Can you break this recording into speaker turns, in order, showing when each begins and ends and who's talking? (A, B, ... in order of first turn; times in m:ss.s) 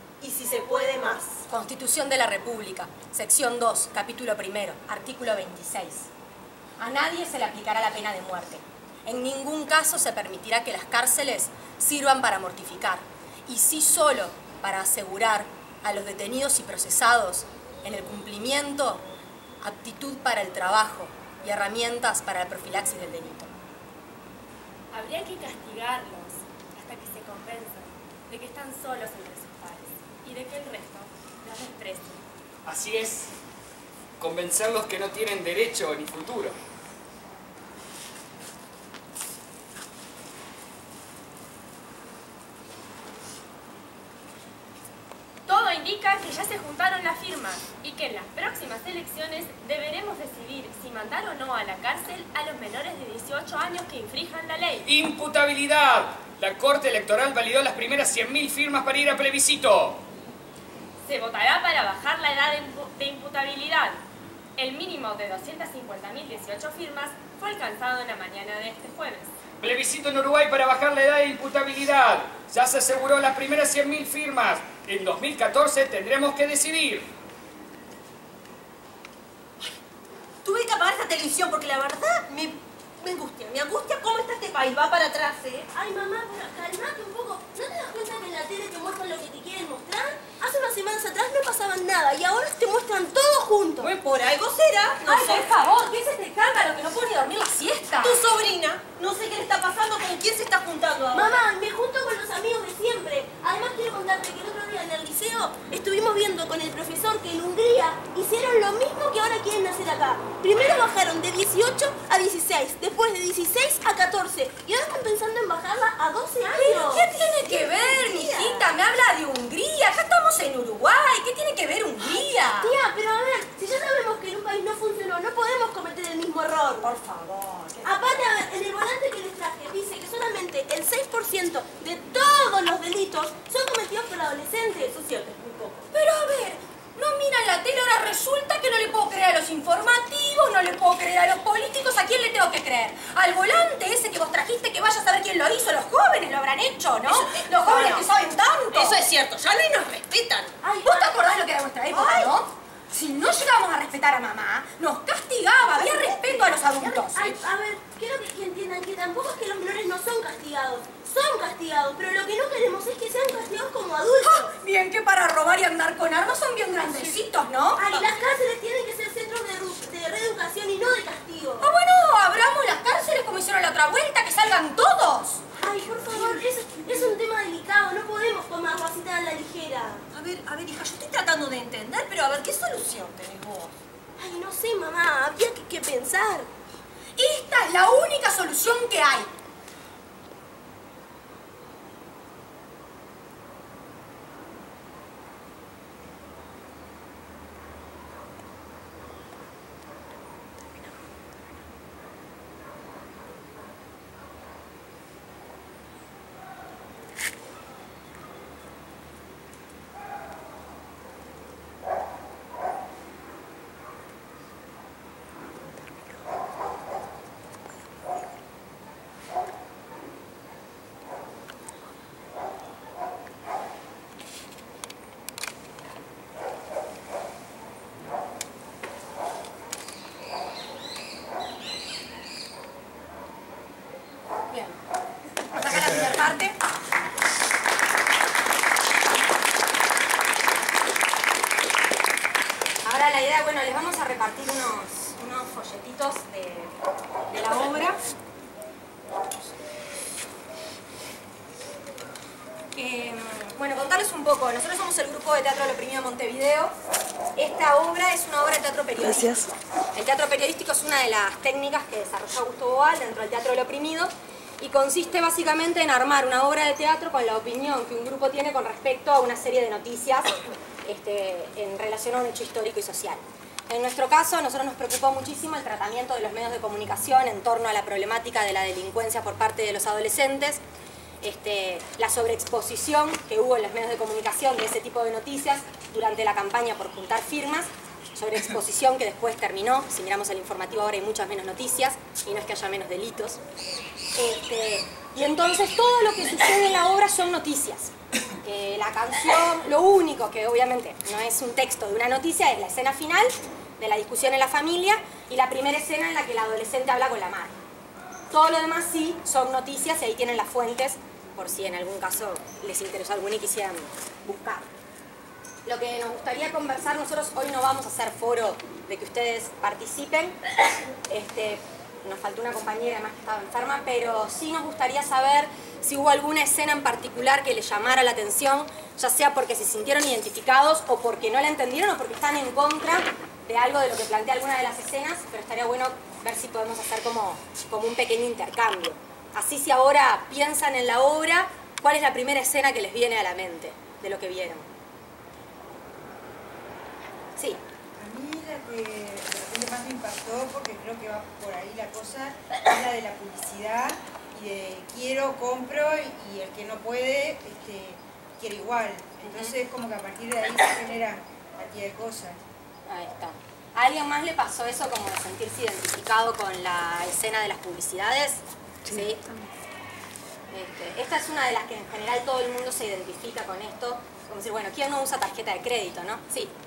0:01.5-0:06.1 A
0:06.8-0:19.0 A
0:19.6-0:23.5 A
0:24.9-0:32.2 B
0:32.7-0:33.3 C
0:34.2-0:36.5 C
0:45.5-0:54.9 B
0:54.9-1:00.0 C
1:01.1-1:04.0 B
1:04.6-1:09.3 B
1:09.6-1:17.1 C
1:20.7-1:22.6 D
1:23.1-1:25.6 D
1:25.7-1:33.9 E
1:33.8-1:35.4 D
1:35.0-1:38.3 A
1:38.0-1:41.3 D
1:41.2-1:58.6 E
1:56.5-2:02.8 A
2:02.0-2:06.9 E
2:06.8-2:07.9 A
2:07.8-2:15.8 E
2:15.9-2:29.0 A
2:27.2-2:28.0 D
2:28.8-2:30.6 D
2:30.6-2:31.2 E
2:30.8-2:37.4 A
2:35.8-2:44.5 E
2:44.2-2:48.1 A
2:47.8-2:51.6 E
2:51.6-2:55.4 A
2:55.6-3:00.0 E
3:00.2-3:03.7 D
3:04.2-3:06.5 E
3:07.2-3:09.3 A
3:54.5-3:54.8 A
3:55.5-3:56.6 A
4:02.8-4:06.8 A
4:07.3-4:08.0 A
4:12.7-4:16.7 A
4:17.4-4:30.3 A
4:30.8-4:40.6 A
4:41.2-4:53.4 A
4:54.2-5:07.6 A
5:08.3-5:14.7 A
5:15.7-5:20.4 A
5:21.1-5:44.7 A
5:47.4-5:47.6 A
5:48.0-6:02.4 F
5:59.2-5:59.6 A
6:02.9-6:09.2 A
6:10.5-6:16.5 A